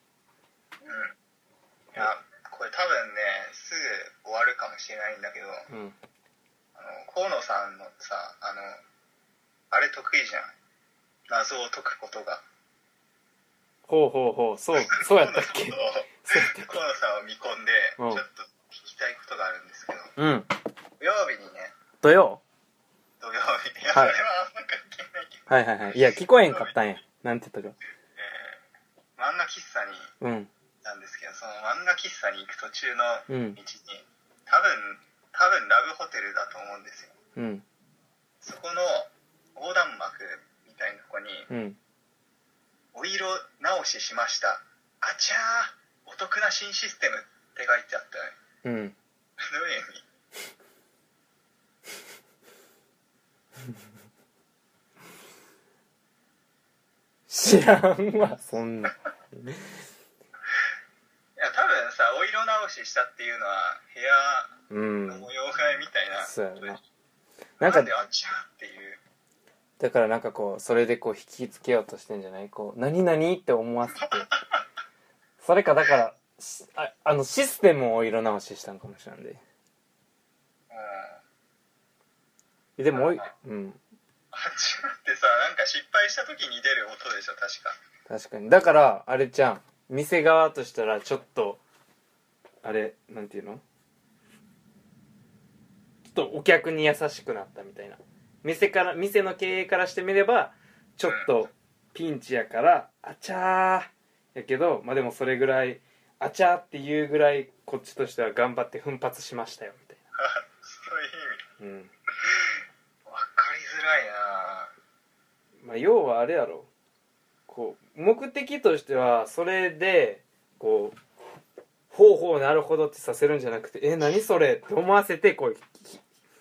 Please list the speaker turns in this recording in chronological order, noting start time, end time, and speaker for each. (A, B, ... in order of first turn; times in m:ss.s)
0:00.8-0:01.1 A
0:01.9-0:05.6 A
0:05.7-0:06.0 B
0:06.8-0:08.8 A
0:09.7-0:10.5 A
0:11.3-0:12.4 A
0:13.9-0:16.7 B
0:14.8-0:20.1 A
0:18.0-0:18.2 B
0:20.2-0:20.5 B
0:21.0-0:21.7 A
0:22.0-0:22.4 B
0:23.2-0:25.4 A
0:25.5-0:27.8 B
0:26.4-0:26.7 A
0:28.2-0:28.6 A
0:29.2-0:30.1 A
0:30.2-0:30.5 B
0:30.8-0:37.1 A
0:33.3-0:33.6 B
0:37.4-0:37.6 B
0:38.4-0:41.5 A
0:41.5-0:41.8 B
0:42.9-0:48.4 A
0:48.6-0:48.9 B
0:49.4-0:50.0 A
0:57.3-0:59.6 B
1:01.4-1:06.8 A
1:04.7-1:05.3 B
1:06.2-1:06.8 B
1:07.6-1:07.9 B
1:07.6-1:09.0 A
1:09.8-1:14.3 B
1:14.0-1:14.6 A
1:15.4-1:19.4 B
1:20.7-1:21.2 A
1:22.8-1:23.8 B
1:22.9-1:23.3 A
1:24.3-1:27.8 A
1:28.1-1:31.6 B
1:32.6-1:33.6 B
1:36.0-1:50.0 B
1:50.2-1:51.4 A
1:51.6-1:51.9 B
1:53.1-1:54.7 A
1:55.6-1:56.7 B
1:57.5-2:01.0 B
2:01.9-2:06.0 B